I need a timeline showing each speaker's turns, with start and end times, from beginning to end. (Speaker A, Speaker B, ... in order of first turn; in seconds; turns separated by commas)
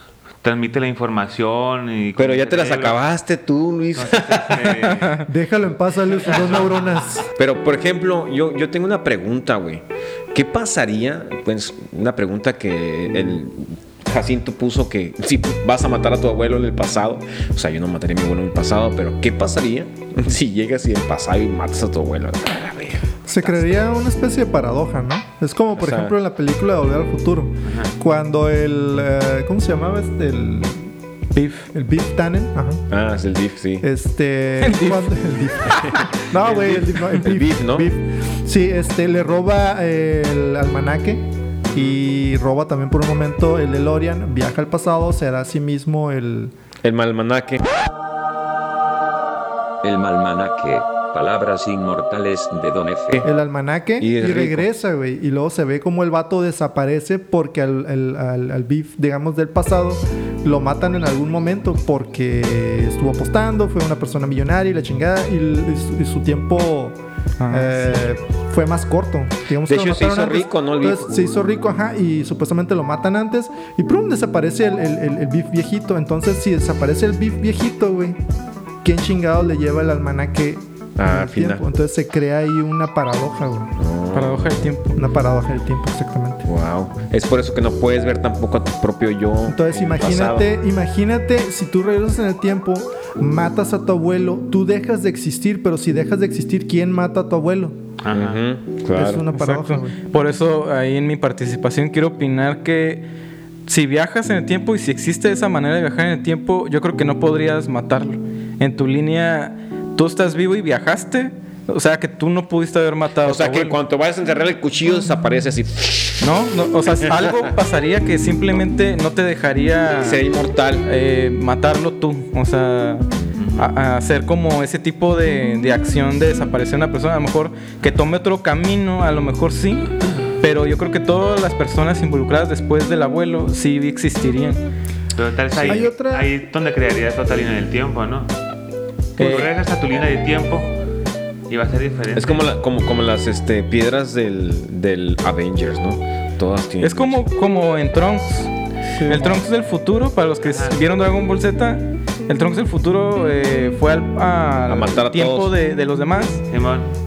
Speaker A: 0.4-3.0, Speaker B: 2.2-4.8, Speaker A: 4.0-5.2, Speaker C: 5.0-5.2, Speaker D: 5.3-7.3, Speaker A: 6.2-6.8, Speaker B: 7.4-23.7, Speaker D: 23.3-30.9, Speaker B: 25.8-26.1, Speaker A: 27.7-27.9, Speaker C: 31.3-31.7, Speaker D: 31.7-32.8, Speaker B: 32.9-33.9, Speaker D: 33.8-46.5, Speaker C: 34.6-35.2, Speaker C: 35.7-36.0, Speaker B: 36.4-37.9, Speaker B: 46.8-47.6, Speaker E: 49.8-53.2, Speaker D: 53.2-67.0, Speaker B: 54.0-54.7, Speaker C: 67.4-68.1, Speaker D: 67.5-78.2, Speaker B: 69.7-71.4, Speaker D: 78.8-83.7, Speaker B: 81.0-81.6, Speaker B: 83.8-84.7, Speaker C: 84.1-85.0, Speaker D: 84.9-86.5, Speaker B: 86.5-90.5, Speaker D: 89.5-97.8, Speaker A: 98.0-98.4, Speaker B: 98.1-99.2, Speaker D: 98.9-100.0, Speaker C: 99.3-103.0, Speaker C: 103.7-113.8, Speaker B: 113.2-116.3, Speaker C: 116.2-120.2, Speaker B: 117.0-117.5, Speaker B: 120.0-120.9, Speaker C: 120.8-134.6, Speaker A: 123.4-123.7, Speaker A: 135.2-138.3, Speaker B: 135.6-135.8, Speaker D: 135.7-136.3, Speaker A: 139.2-140.7, Speaker C: 139.2-139.5, Speaker A: 141.5-142.5, Speaker B: 142.2-147.2, Speaker C: 146.8-148.5, Speaker D: 149.0-149.4, Speaker C: 149.1-156.4, Speaker A: 150.4-150.8, Speaker B: 154.7-155.5, Speaker A: 156.5-156.9